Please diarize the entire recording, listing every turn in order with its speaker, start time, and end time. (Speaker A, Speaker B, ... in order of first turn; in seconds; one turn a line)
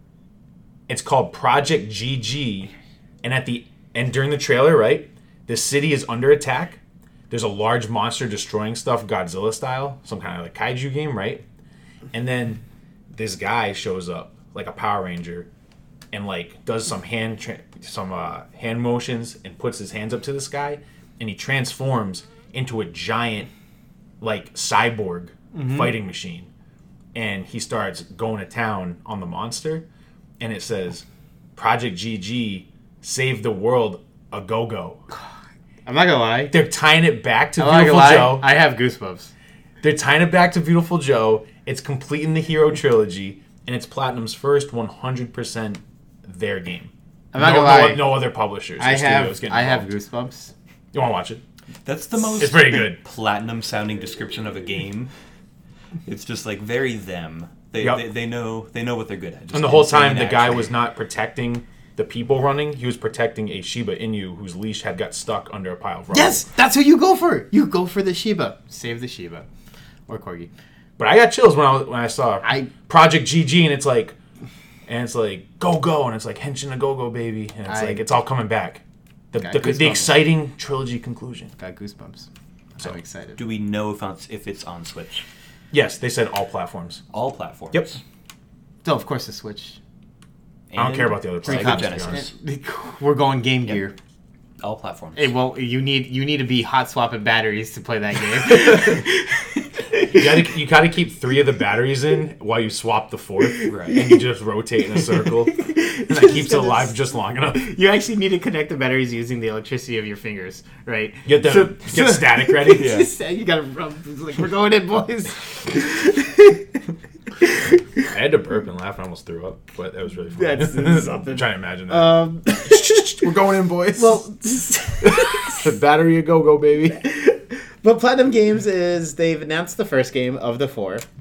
Speaker A: 0.9-6.8
Speaker A: 7.3-11.4
Speaker A: 12.1-12.6
Speaker A: 13.1-15.5
Speaker A: 16.1-23.5
Speaker A: 24.2-26.5
Speaker B: 25.5-26.0
Speaker A: 27.1-29.9
Speaker A: 30.4-31.1
Speaker A: 31.6-35.0
Speaker B: 35.9-36.5
Speaker A: 36.5-38.5
Speaker B: 37.6-39.3
Speaker A: 39.8-49.9
Speaker B: 47.3-48.3
Speaker B: 48.8-50.5
Speaker A: 50.9-51.4
Speaker C: 51.9-55.1
Speaker A: 52.4-53.0
Speaker C: 56.1-60.6
Speaker A: 59.5-66.5
Speaker B: 66.1-69.5
Speaker B: 70.1-70.5
Speaker A: 71.0-74.2
Speaker B: 72.4-72.7
Speaker A: 74.9-81.5
Speaker B: 77.7-78.1
Speaker B: 79.4-80.2
Speaker B: 81.6-83.4
Speaker C: 83.4-85.2
Speaker A: 85.7-87.0
Speaker C: 87.1-88.0
Speaker B: 88.8-89.8
Speaker C: 90.7-92.3
Speaker A: 90.8-92.3
Speaker B: 91.4-94.0
Speaker C: 94.6-95.3
Speaker B: 95.2-100.5
Speaker A: 98.6-99.0
Speaker A: 100.1-107.7
Speaker B: 103.4-104.2
Speaker C: 103.7-104.0
Speaker B: 105.0-107.0
Speaker B: 107.5-116.7
Speaker A: 111.2-113.0
Speaker C: 112.8-113.1
Speaker B: 117.4-118.1
Speaker A: 118.1-124.2
Speaker B: 120.3-123.1
Speaker B: 124.0-125.7
Speaker A: 125.0-127.0
Speaker B: 126.9-131.1